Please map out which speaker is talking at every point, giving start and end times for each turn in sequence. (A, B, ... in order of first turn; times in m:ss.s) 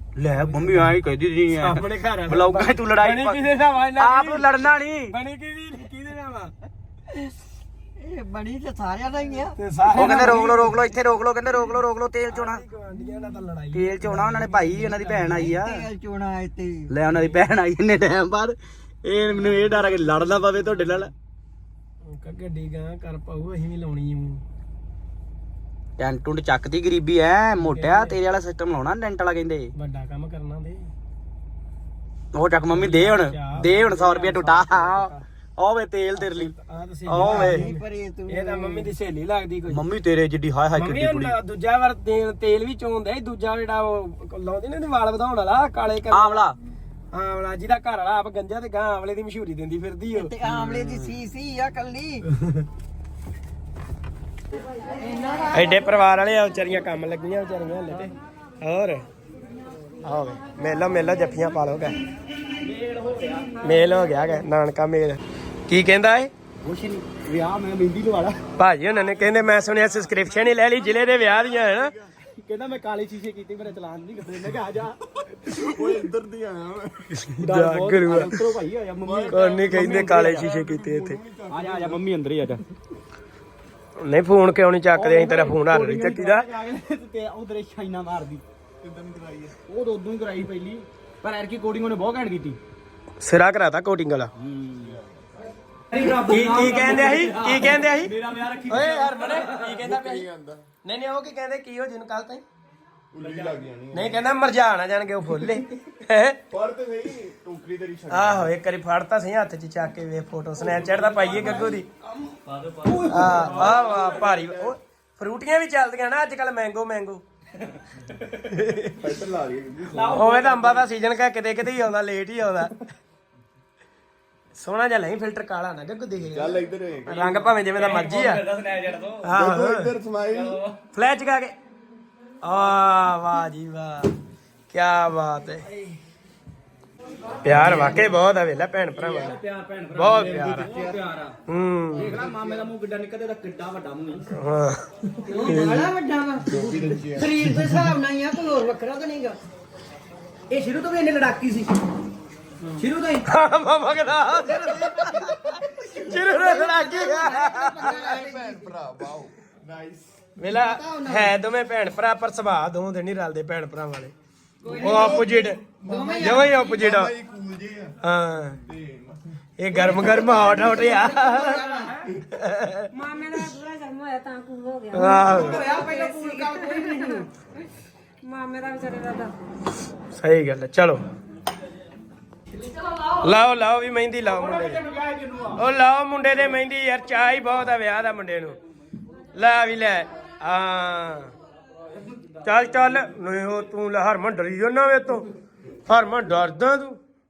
0:00.2-0:03.4 A
0:00.4-0:00.8 B
0:01.5-0:04.5 B
0:04.0-0:05.1 A
0:05.1-0:06.5 B
0:08.0-0:09.6 C
0:09.5-0:10.7 B
0:09.9-0:12.6 A
0:12.3-0:15.5 B
0:13.7-0:15.9 A
0:15.3-0:16.9 C
0:16.9-0:21.1 A
0:22.0-0:24.4 B
0:26.0-0:29.7 A
0:27.6-0:28.1 B
0:29.8-0:30.9 B
0:32.3-0:36.5 A
0:32.7-0:35.2 B
0:36.2-0:39.8 B
0:37.1-0:37.7 A
0:37.2-0:38.9 C
0:39.7-0:41.4 A
0:40.8-0:46.4 B
0:46.1-0:46.6 A
0:47.1-0:51.1 B
0:50.1-0:52.3 C
0:54.9-0:55.7 C
0:55.5-0:59.0 B
1:00.0-1:02.0 B
1:02.6-1:03.5 A
1:03.6-1:06.3 B
1:06.6-1:08.3 A
1:08.6-1:11.9 B
1:12.4-1:15.0 A
1:15.5-1:17.0 D
1:17.1-1:18.4 B
1:17.4-1:20.5 A
1:19.0-1:22.0 D
1:19.3-1:21.2 B
1:21.5-1:22.6 A
1:24.0-1:26.5 B
1:25.0-1:28.4 A
1:28.8-1:29.5 D
1:29.7-1:32.6 A
1:33.2-1:34.3 B
1:34.4-1:34.9 A
1:35.9-1:39.8 A
1:36.0-1:38.1 B
1:38.7-1:40.3 B
1:39.8-1:40.6 D
1:40.8-1:42.4 B
1:43.1-1:44.2 D
1:43.2-1:43.5 A
1:43.9-1:46.4 B
1:46.5-1:48.5 D
1:48.1-1:51.9 B
1:52.6-1:53.8 A
1:53.1-1:57.2 B
1:58.3-1:59.1 B
1:59.0-2:00.1 D
1:59.9-2:00.8 A
2:00.0-2:02.8 B
2:04.6-2:08.4 B
2:06.3-2:07.2 D
2:07.1-2:09.3 A
2:09.2-2:09.9 B
2:09.3-2:10.6 D
2:10.3-2:10.8 A
2:10.9-2:11.5 B
2:12.4-2:14.1 B
2:14.7-2:15.6 B
2:17.4-2:19.4 B
2:17.5-2:18.0 A
2:19.0-2:21.3 A
2:19.9-2:20.7 B
2:20.2-2:21.0 D
2:21.5-2:22.2 B
2:21.9-2:24.3 A
2:24.3-2:24.8 B
2:25.3-2:29.4 C
2:25.4-2:25.8 B
2:26.5-2:27.4 D
2:30.7-2:31.7 A
2:32.8-2:33.1 A
2:33.2-2:38.2 B
2:36.1-2:38.8 C
2:37.8-2:40.1 D
2:40.4-2:44.1 B
2:40.5-2:41.3 C
2:44.6-2:46.8 C
2:44.7-2:45.6 B
2:44.7-2:47.9 D
2:46.2-2:47.1 B
2:48.0-2:48.6 B
2:48.6-2:49.2 D
2:49.6-2:51.8 B
2:49.7-2:52.0 C
2:52.3-2:52.9 B
2:52.9-2:57.3 E
2:54.9-2:55.6 B
2:55.1-2:57.2 C
2:58.2-2:59.3 E
3:00.1-3:01.0 B
3:03.1-3:04.8 B
3:04.8-3:05.3 A
3:05.5-3:08.6 B
3:09.3-3:11.3 B
3:12.4-3:15.3 B
3:15.9-3:17.0 B